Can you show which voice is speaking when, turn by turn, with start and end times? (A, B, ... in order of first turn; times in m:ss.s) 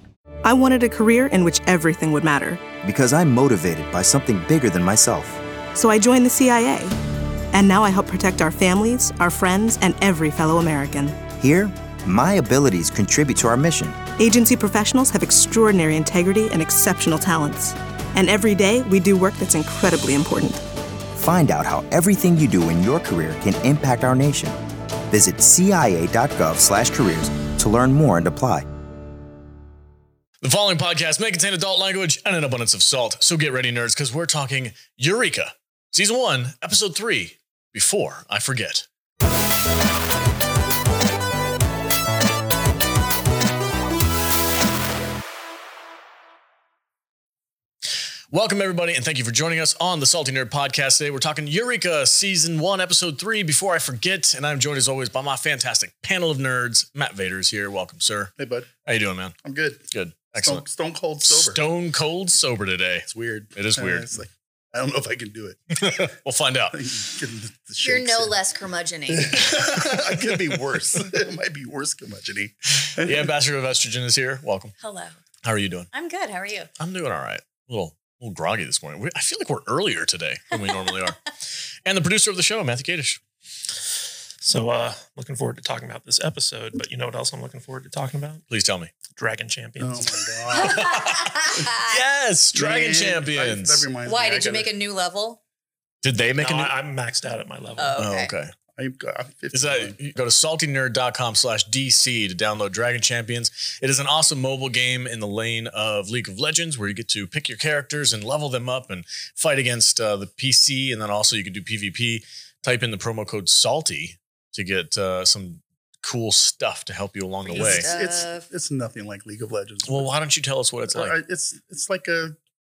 0:00.4-0:02.6 A
0:02.8-0:05.4 B
0:05.7-0:06.9 A
0:07.5-0:11.2 A
0:11.3-0:14.0 B
0:14.2-0:20.6 A
0:21.2-0:24.6 B
0:25.1-0:28.6 B
0:30.4-0:38.9 C
0:48.3-0:58.3 C
0:58.4-0:58.7 D
0:58.8-0:59.4 C
0:59.4-1:01.6 D
0:59.9-1:00.6 C
1:01.2-1:04.1 C
1:03.1-1:06.1 D
1:05.8-1:06.8 C
1:06.7-1:08.3 D
1:07.8-1:09.3 E
1:09.1-1:13.3 D
1:12.8-1:14.7 C
1:14.8-1:15.2 E
1:15.4-1:15.9 C
1:15.9-1:16.7 E
1:16.8-1:21.3 C
1:21.8-1:23.2 C
1:24.4-1:28.4 F
1:28.5-1:28.9 C
1:29.1-1:30.2 F
1:29.8-1:31.0 D
1:30.6-1:32.0 E
1:30.8-1:33.9 C
1:32.5-1:34.7 D
1:34.0-1:35.4 E
1:36.0-1:36.7 C
1:36.4-1:38.0 F
1:37.8-1:38.3 E
1:38.0-1:38.5 C
1:38.8-1:40.0 D
1:39.5-1:57.9 C
1:57.4-1:58.4 E
1:57.5-2:00.1 D
1:59.9-2:01.2 C
2:00.9-2:02.3 D